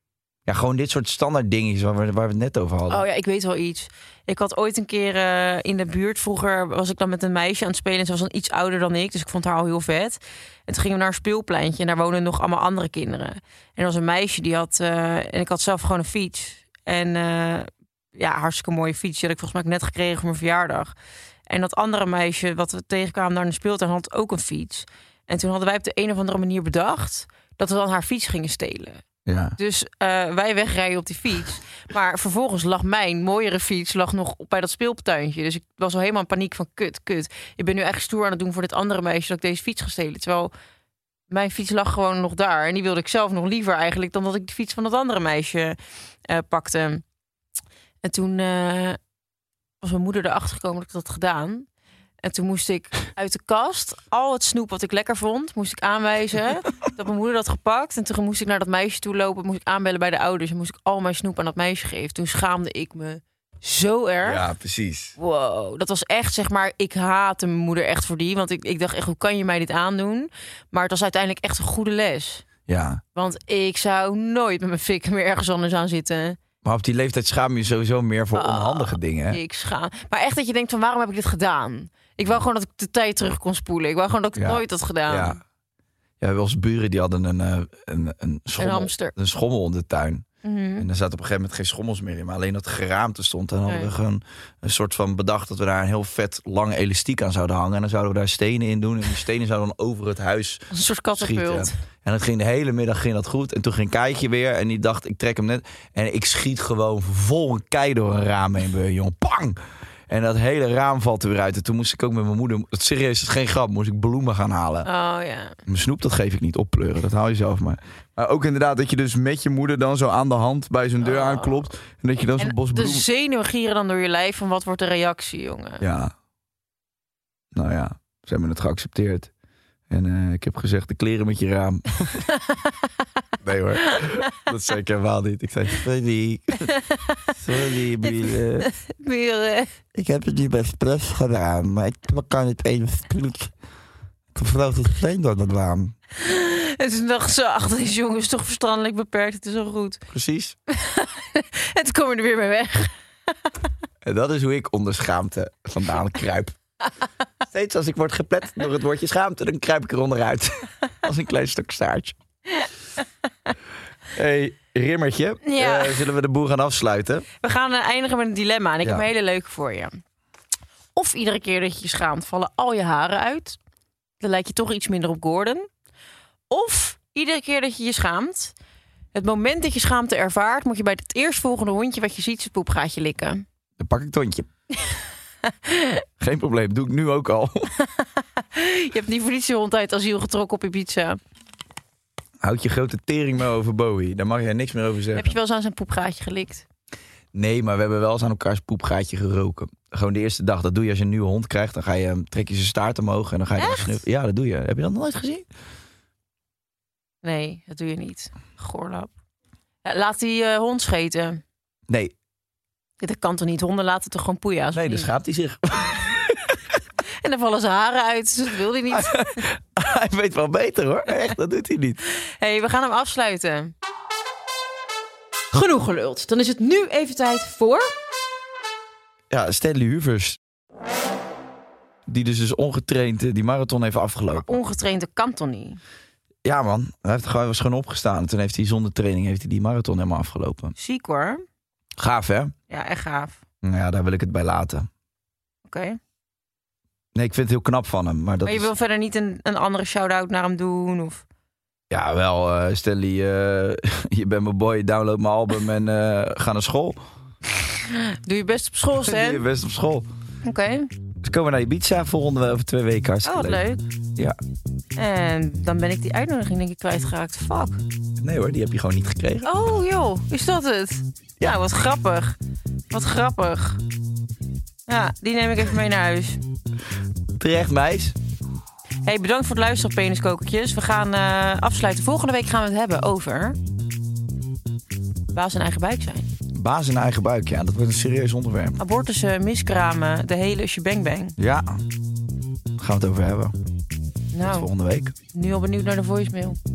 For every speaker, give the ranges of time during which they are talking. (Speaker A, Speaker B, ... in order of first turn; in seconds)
Speaker A: 0.5-3.0, 29.3-29.6, 64.2-65.2, 72.7-73.0, 76.6-79.4, 84.4-85.4, 86.2-90.3, 90.8-109.6, 110.1-114.9, 115.7-123.1, 125.8-126.1, 127.5-129.3, 129.9-132.2, 133.4-136.7, 137.4-138.7, 139.9-143.5, 144.3-146.0, 150.1-150.6, 154.1-156.6, 157.5-162.2, 164.1-167.3, 183.8-184.5, 186.2-187.7, 192.4-195.3, 197.3-205.5, 214.8-216.6, 218.9-222.0, 229.3-230.4, 232.1-234.6, 236.4-240.8, 242.0-242.5, 243.6-244.9, 247.2-248.7, 251.9-257.0, 259.0-260.1, 261.2-263.6, 268.2-269.7, 277.4-278.2, 286.5-288.8, 291.4-291.8, 292.8-293.6, 294.4-295.1
Speaker B: 2.9-20.9, 21.5-29.0, 29.6-40.5, 41.3-47.0, 48.0-49.0, 49.8-51.7, 52.2-64.5, 65.2-72.5, 73.2-76.4, 78.3-85.4, 88.6-89.1, 90.4-90.9, 93.7-93.9, 100.7-101.7, 114.8-115.5, 121.0-121.6, 122.4-125.8, 136.8-137.3, 138.0-139.7, 146.2-150.0, 150.7-152.9, 165.4-166.0, 167.4-170.0, 170.9-173.6, 174.2-175.7, 176.5-178.5, 179.1-183.4, 185.5-186.0, 187.8-191.2, 195.2-196.7, 203.6-204.0, 207.2-209.1, 209.8-211.4, 213.0-215.1, 217.2-219.4, 222.4-223.7, 225.5-227.9, 234.3-235.8, 240.8-241.4, 242.7-243.4, 245.7-246.0, 248.4-251.2, 257.9-259.4, 260.4-260.9, 263.2-263.8, 265.0-267.8, 269.4-272.4, 272.9-273.8, 274.9-276.4, 279.1-283.6, 285.3-286.3, 288.8-291.4, 294.3-294.7, 295.3-296.6